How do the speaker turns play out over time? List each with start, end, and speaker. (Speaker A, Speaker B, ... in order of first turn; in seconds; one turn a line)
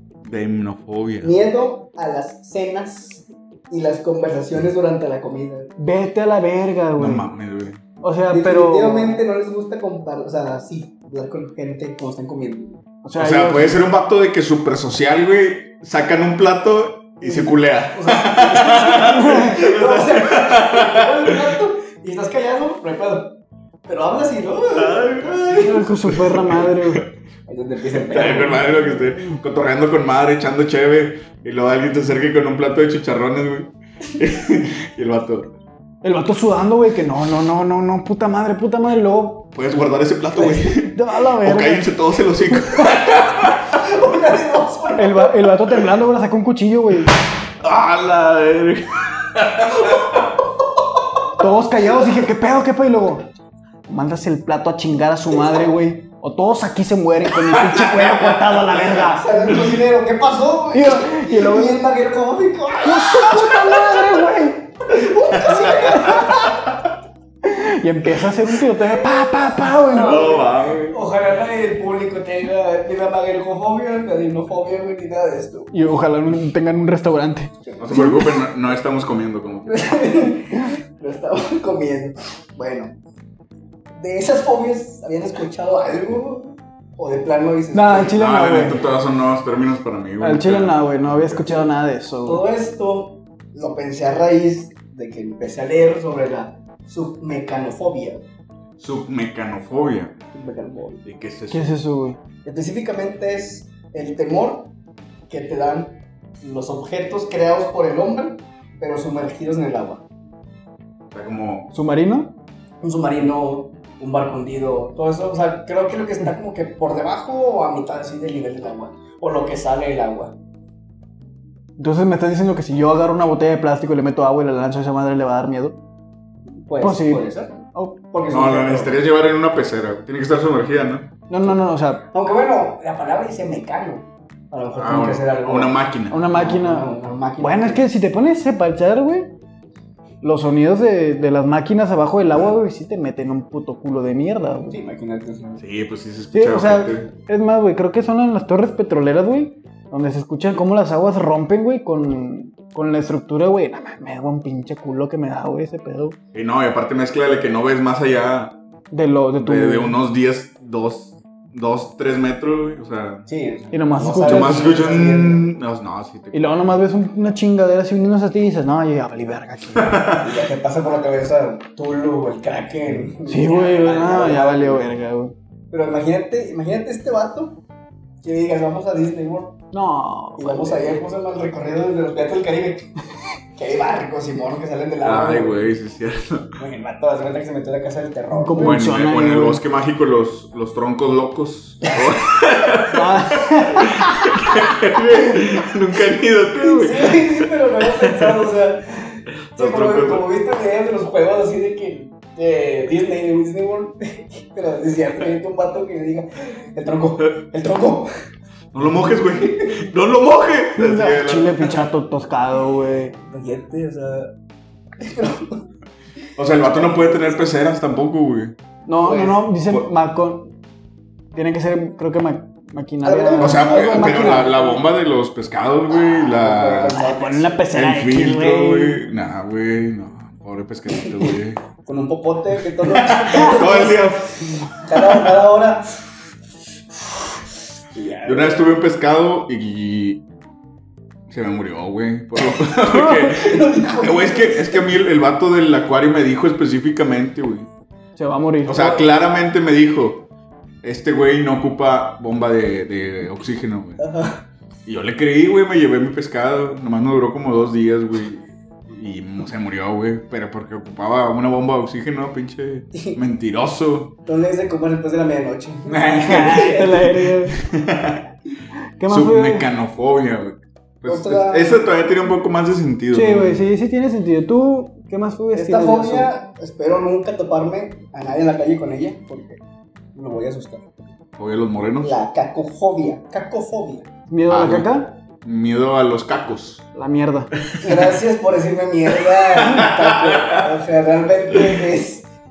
Speaker A: 0.2-1.3
Speaker B: 1.2-5.7
Speaker C: 5.8-7.3
Speaker A: 7.0-7.8
Speaker C: 8.0-9.2
Speaker B: 8.3-12.8
Speaker C: 13.0-13.8
Speaker A: 13.2-21.5
Speaker B: 17.2-23.4
Speaker C: 19.1-19.6
Speaker B: 23.9-25.8
Speaker A: 24.7-26.8
Speaker C: 25.6-27.0
Speaker B: 27.5-28.7
Speaker A: 28.0-35.5
Speaker C: 36.0-39.5
Speaker A: 39.5-43.7
Speaker C: 40.4-41.9
Speaker B: 43.7-45.5
Speaker C: 45.0-47.1
Speaker A: 47.6-50.3
Speaker C: 51.4-53.3
Speaker C: 53.9-59.4
Speaker B: 55.3-55.7
Speaker A: 57.4-58.9
Speaker B: 58.9-64.2
Speaker C: 60.7-61.8
Speaker C: 62.8-64.6
Speaker B: 64.9-66.7
Speaker A: 65.5-66.6
Speaker C: 65.6-66.5
Speaker C: 67.4-70.3
Speaker B: 69.7-75.9
Speaker A: 69.9-71.0
Speaker C: 75.7-78.2
Speaker B: 77.7-78.3
Speaker A: 77.8-79.9
Speaker B: 79.7-82.9
Speaker B: 84.0-88.2
Speaker C: 87.7-88.8
Speaker A: 88.0-91.5
Speaker C: 90.2-92.4
Speaker B: 92.2-98.2
Speaker A: 98.8-100.2
Speaker B: 100.3-101.0
Speaker A: 101.0-101.7
Speaker C: 101.5-102.2
Speaker B: 102.4-104.7
Speaker B: 105.3-110.0
Speaker A: 111.1-111.7
Speaker C: 111.7-112.3
Speaker B: 112.8-120.3
Speaker C: 121.8-125.8
Speaker B: 126.6-129.0
Speaker C: 126.8-128.0
Speaker A: 128.3-131.1
Speaker C: 131.3-132.0
Speaker B: 132.1-137.8
Speaker A: 134.8-136.3
Speaker C: 136.1-139.3
Speaker C: 140.2-144.8
Speaker B: 144.7-145.6
Speaker A: 145.6-147.1
Speaker C: 146.3-156.2
Speaker A: 156.3-158.6
Speaker C: 158.9-160.0
Speaker A: 159.4-163.3
Speaker B: 163.3-165.5
Speaker C: 163.7-164.7
Speaker A: 164.2-166.7
Speaker C: 166.3-170.0
Speaker A: 169.8-170.3
Speaker B: 170.1-174.9
Speaker C: 173.2-175.3
Speaker B: 175.7-177.6
Speaker B: 178.2-179.6
Speaker C: 179.7-181.0
Speaker B: 180.4-182.9
Speaker B: 183.6-185.6
Speaker A: 185.0-186.6
Speaker B: 186.6-188.8
Speaker C: 188.3-189.6
Speaker A: 188.6-198.4
Speaker C: 192.9-194.5
Speaker B: 196.6-208.1
Speaker A: 199.6-200.2
Speaker A: 208.7-211.8
Speaker B: 209.1-209.8
Speaker C: 210.8-213.2
Speaker B: 213.2-214.3
Speaker B: 215.0-215.7
Speaker A: 216.4-218.5
Speaker B: 216.6-217.4
Speaker C: 218.9-220.5
Speaker B: 219.0-219.4
Speaker C: 221.3-224.7
Speaker B: 223.0-224.6
Speaker A: 223.4-227.0
Speaker B: 226.0-227.7
Speaker C: 226.9-229.0
Speaker A: 227.7-231.6
Speaker B: 231.8-234.1
Speaker A: 232.8-235.3
Speaker B: 234.7-236.0
Speaker B: 237.9-238.8
Speaker A: 238.2-240.2
Speaker A: 241.3-247.7
Speaker B: 242.9-244.9
Speaker C: 248.2-248.9
Speaker A: 248.7-250.3
Speaker B: 248.7-249.1
Speaker A: 250.8-254.0
Speaker B: 254.0-254.4
Speaker A: 254.8-264.1
Speaker B: 262.9-263.2
Speaker B: 264.2-267.2
Speaker A: 265.9-266.8
Speaker C: 266.2-267.6
Speaker A: 267.6-268.2
Speaker C: 269.0-269.7
Speaker A: 269.1-273.7
Speaker B: 271.1-271.8
Speaker C: 273.1-276.3
Speaker B: 275.5-279.6
Speaker B: 280.1-281.0
Speaker A: 281.4-282.2
Speaker B: 282.0-284.1
Speaker C: 284.3-285.2
Speaker A: 284.5-284.9
Speaker A: 285.4-286.8
Speaker C: 286.9-287.5
Speaker B: 287.8-292.3
Speaker A: 289.6-290.7